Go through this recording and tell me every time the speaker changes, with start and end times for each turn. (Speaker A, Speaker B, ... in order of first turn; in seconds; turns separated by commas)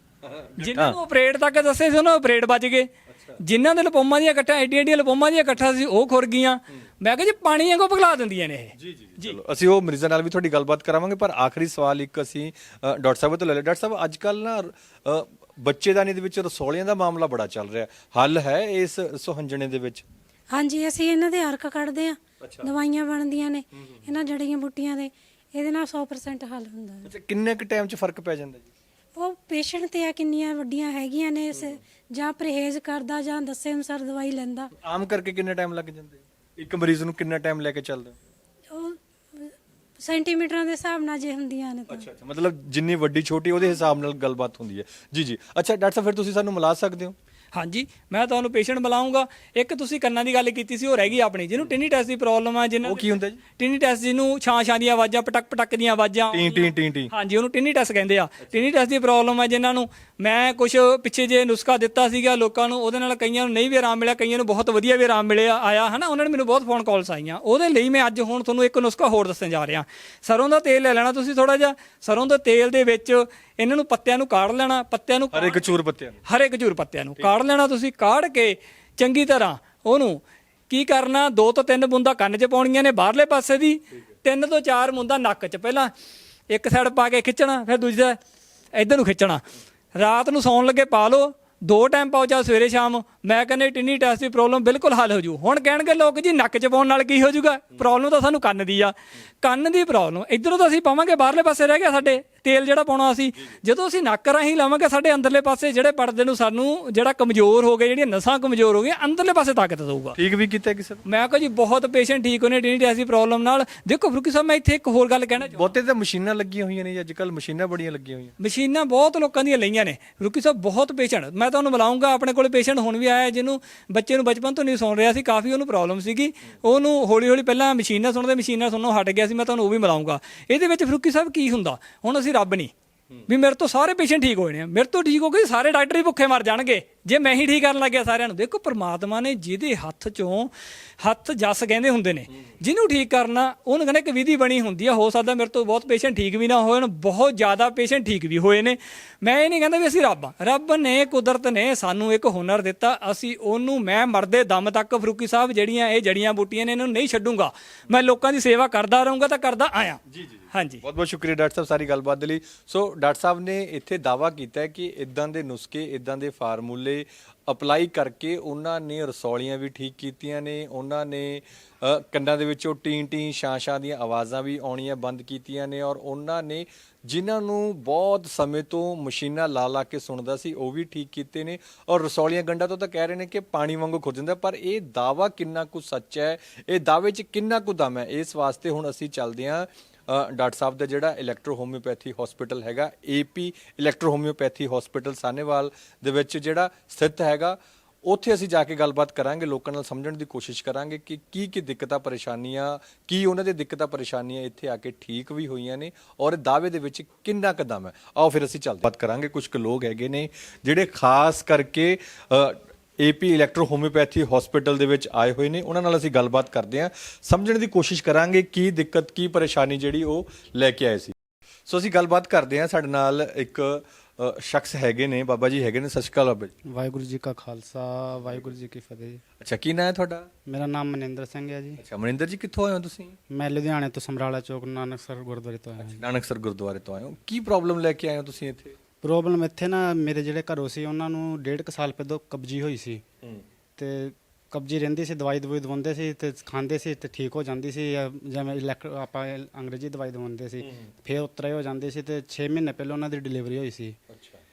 Speaker A: 0.2-1.0, Speaker B: 0.6-9.4, Speaker A: 3.1-3.4, Speaker A: 8.8-20.0, Speaker C: 20.5-27.1, Speaker A: 22.4-22.7, Speaker A: 23.7-24.0, Speaker A: 27.0-28.7, Speaker C: 29.1-34.7, Speaker A: 31.5-31.8, Speaker A: 34.8-38.1, Speaker C: 38.7-42.1, Speaker A: 41.9-47.1, Speaker B: 47.5-75.7, Speaker A: 52.8-53.4, Speaker A: 56.3-57.1, Speaker A: 58.4-58.7, Speaker A: 75.3-76.2, Speaker B: 76.2-85.9, Speaker B: 86.5-88.2, Speaker B: 88.7-89.4, Speaker B: 90.0-110.2, Speaker A: 110.2-111.0, Speaker B: 111.0-115.7, Speaker A: 115.4-118.3, Speaker B: 118.4-132.7, Speaker B: 133.3-160.8, Speaker A: 160.1-221.1, Speaker A: 221.7-226.5, Speaker D: 226.6-229.2, Speaker A: 229.4-230.3, Speaker D: 230.4-231.8, Speaker A: 231.8-233.2, Speaker D: 233.3-236.0, Speaker A: 235.8-238.7, Speaker D: 239.0-243.0, Speaker D: 243.8-254.0, Speaker A: 250.6-250.9, Speaker A: 254.1-254.4